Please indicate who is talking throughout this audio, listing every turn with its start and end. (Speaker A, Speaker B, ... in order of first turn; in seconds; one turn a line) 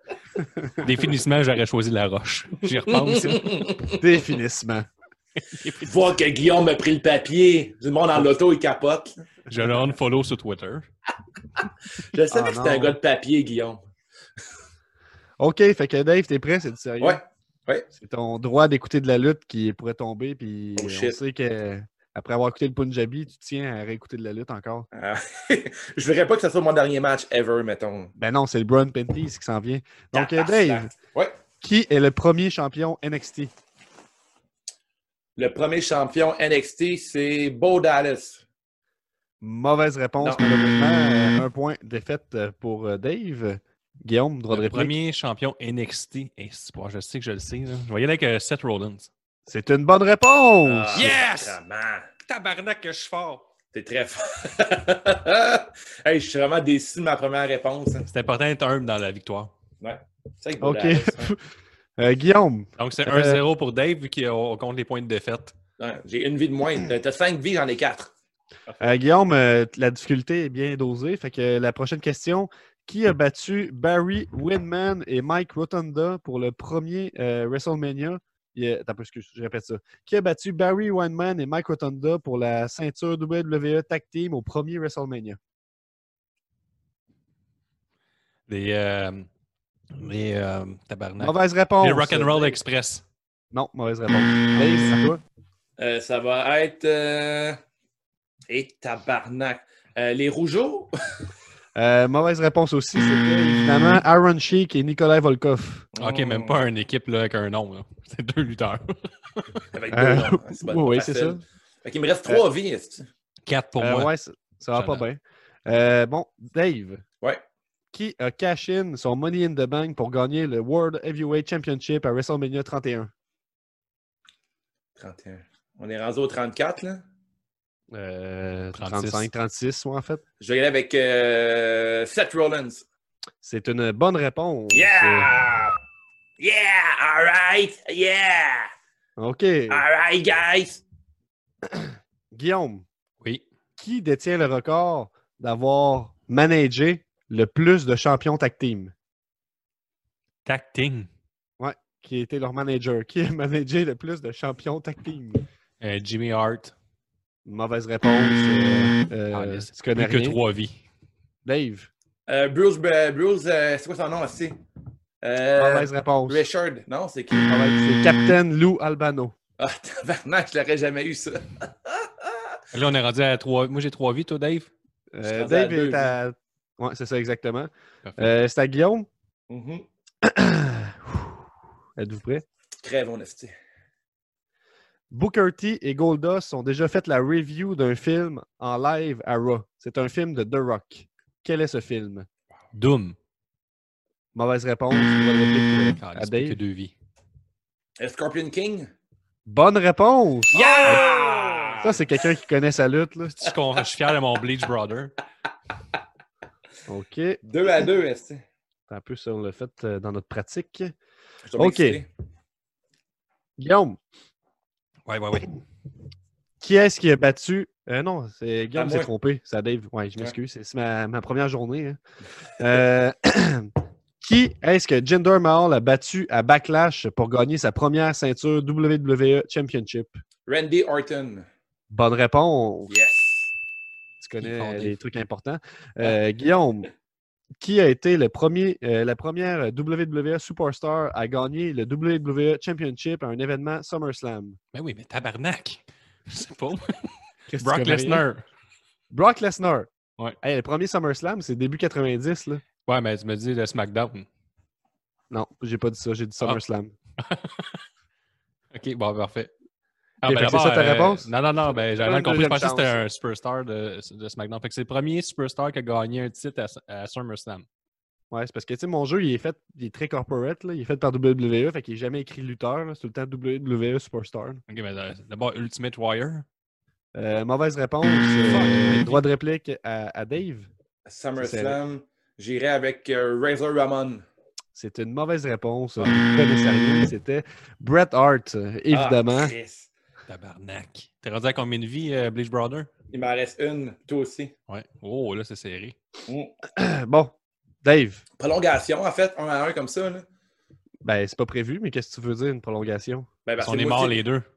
Speaker A: 0.4-1.0
Speaker B: 0.8-3.7
Speaker C: 2.9-4.0
Speaker A: 4.0-4.9
Speaker B: 5.4-6.0
Speaker C: 5.8-9.1
Speaker B: 9.5-10.8
Speaker C: 12.0-13.8
Speaker A: 12.3-13.0
Speaker A: 15.4-17.2
Speaker C: 17.0-17.9
Speaker A: 17.9-24.9
Speaker C: 20.8-21.2
Speaker C: 24.9-28.1
Speaker A: 28.1-30.9
Speaker C: 30.1-31.4
Speaker A: 31.6-33.5
Speaker C: 35.4-38.4
Speaker A: 39.4-44.9
Speaker B: 44.5-49.1
Speaker A: 49.5-51.2
Speaker C: 50.6-52.1
Speaker B: 50.9-51.6
Speaker B: 52.2-53.4
Speaker C: 53.7-58.1
Speaker B: 58.1-59.5
Speaker C: 59.8-61.3
Speaker A: 60.6-61.4
Speaker A: 62.0-63.4
Speaker B: 62.8-65.5
Speaker C: 65.8-68.1
Speaker A: 68.8-85.4
Speaker B: 88.5-89.3
Speaker B: 89.9-93.0
Speaker A: 91.2-92.6
Speaker A: 93.5-95.2
Speaker B: 94.5-95.0
Speaker C: 95.8-97.6
Speaker C: 98.5-100.9
Speaker A: 101.7-105.9
Speaker C: 105.9-106.6
Speaker B: 106.0-109.6
Speaker C: 109.7-113.0
Speaker A: 109.9-111.4
Speaker B: 113.5-114.1
Speaker A: 113.8-117.0
Speaker B: 114.7-115.0
Speaker A: 117.9-123.1
Speaker C: 125.0-127.0
Speaker A: 127.9-130.2
Speaker B: 128.7-129.3
Speaker C: 130.4-132.8
Speaker A: 133.4-135.3
Speaker C: 134.7-135.7
Speaker C: 136.4-138.7
Speaker A: 139.2-139.8
Speaker C: 139.7-140.8
Speaker A: 141.7-142.8
Speaker A: 143.8-148.9
Speaker B: 150.4-151.1
Speaker A: 151.6-155.4
Speaker B: 155.8-156.7
Speaker A: 157.4-160.4
Speaker B: 159.3-160.8
Speaker A: 161.4-161.9
Speaker C: 162.3-164.6
Speaker C: 165.2-167.5
Speaker A: 165.6-166.4
Speaker A: 167.5-169.3
Speaker C: 169.6-172.5
Speaker B: 172.7-174.7
Speaker A: 175.1-179.1
Speaker C: 175.2-176.2
Speaker C: 179.5-179.9
Speaker A: 180.2-181.3
Speaker A: 182.0-182.4
Speaker C: 182.8-183.5
Speaker A: 185.1-192.3
Speaker B: 192.7-193.2
Speaker A: 194.3-196.6
Speaker B: 196.0-196.9
Speaker C: 198.0-198.9
Speaker A: 199.4-201.1
Speaker C: 200.5-202.0
Speaker B: 200.6-201.6
Speaker A: 201.8-203.5
Speaker B: 203.4-205.1
Speaker A: 206.9-207.4
Speaker C: 207.4-208.4
Speaker A: 208.9-210.9
Speaker C: 211.4-212.1
Speaker A: 211.6-212.0
Speaker A: 213.6-214.0
Speaker B: 215.1-215.5
Speaker A: 216.6-222.0
Speaker C: 218.7-219.1
Speaker A: 222.6-230.2
Speaker C: 230.5-231.4
Speaker A: 231.9-232.9
Speaker C: 232.9-233.5
Speaker A: 234.2-236.9
Speaker B: 234.4-235.0
Speaker A: 237.6-244.6
Speaker B: 244.7-248.4
Speaker A: 247.5-248.2
Speaker A: 249.1-252.6
Speaker B: 252.8-254.2
Speaker A: 255.3-256.9
Speaker B: 257.2-257.8
Speaker B: 258.7-259.5
Speaker B: 260.2-267.6
Speaker A: 260.2-263.0
Speaker A: 268.3-274.6
Speaker B: 274.7-276.4
Speaker A: 277.1-280.7
Speaker B: 278.4-279.2
Speaker C: 281.1-284.2
Speaker A: 281.4-281.8
Speaker A: 284.7-289.5
Speaker C: 288.9-289.9
Speaker B: 290.3-292.9
Speaker C: 293.1-294.5
Speaker B: 294.7-295.9
Speaker C: 296.3-296.5
Speaker A: 296.7-298.2
Speaker C: 298.4-300.2
Speaker A: 301.0-303.3
Speaker C: 303.4-304.2
Speaker B: 303.6-304.4